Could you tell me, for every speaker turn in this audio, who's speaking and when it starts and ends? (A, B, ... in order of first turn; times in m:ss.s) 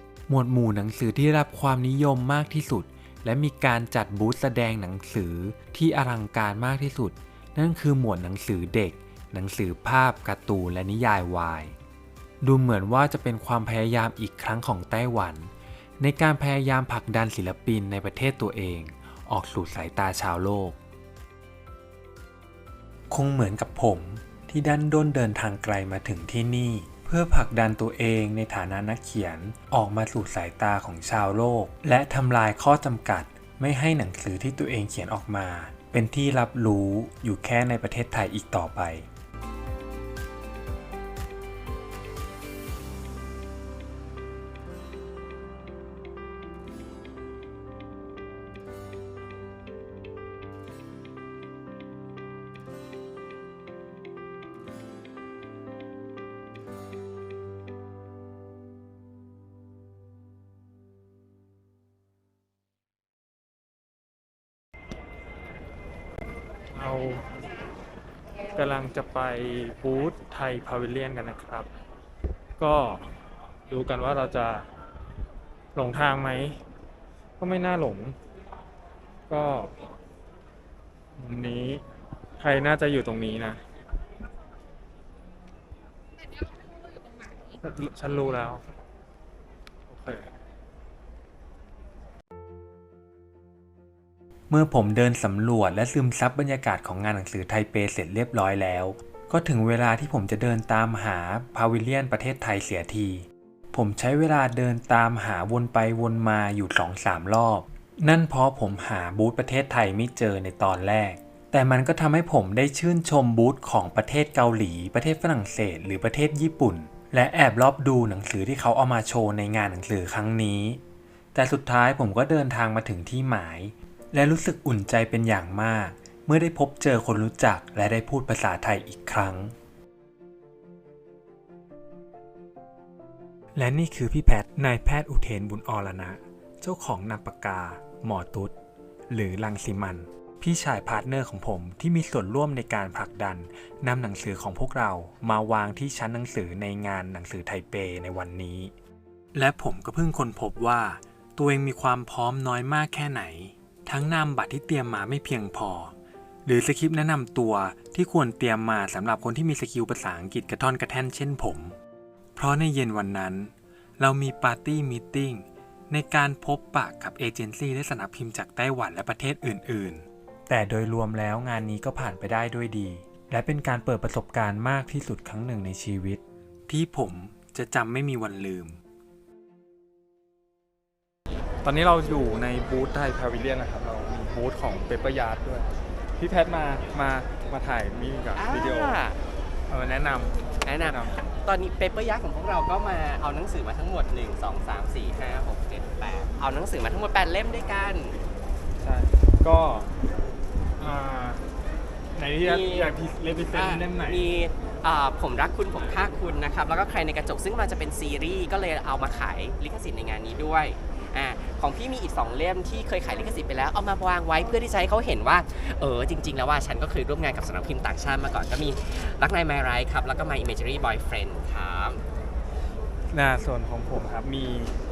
0:00.3-0:11.8 A
0:12.4-0:20.8 A
0:23.1-0:39.1 A
1:06.8-1:07.3 B
1:08.6-1:11.7 B
1:12.6-1:13.1 B
1:13.7-1:14.7 B
1:15.8-1:16.6 B
1:17.4-1:18.2 B
1:19.3-1:19.8 B
1:21.2-1:21.8 B
1:22.4-1:23.6 B
1:27.5-1:28.6 B
1:29.9-1:30.3 B
1:34.5-2:00.8 A
2:01.3-2:09.6 A
2:13.6-2:18.6 A
2:19.1-2:28.7 A
2:29.3-2:35.9 A
2:36.4-2:41.8 A
2:42.4-2:58.8 A
3:01.6-3:09.0 B
3:08.3-3:09.2 C
3:09.7-3:11.2 B
3:10.6-3:18.2 C
3:18.8-3:19.9 B
3:20.8-3:21.4 B
3:22.2-3:24.4 B
3:22.4-3:22.9 C
3:23.5-3:42.0 C
3:43.1-3:44.8 B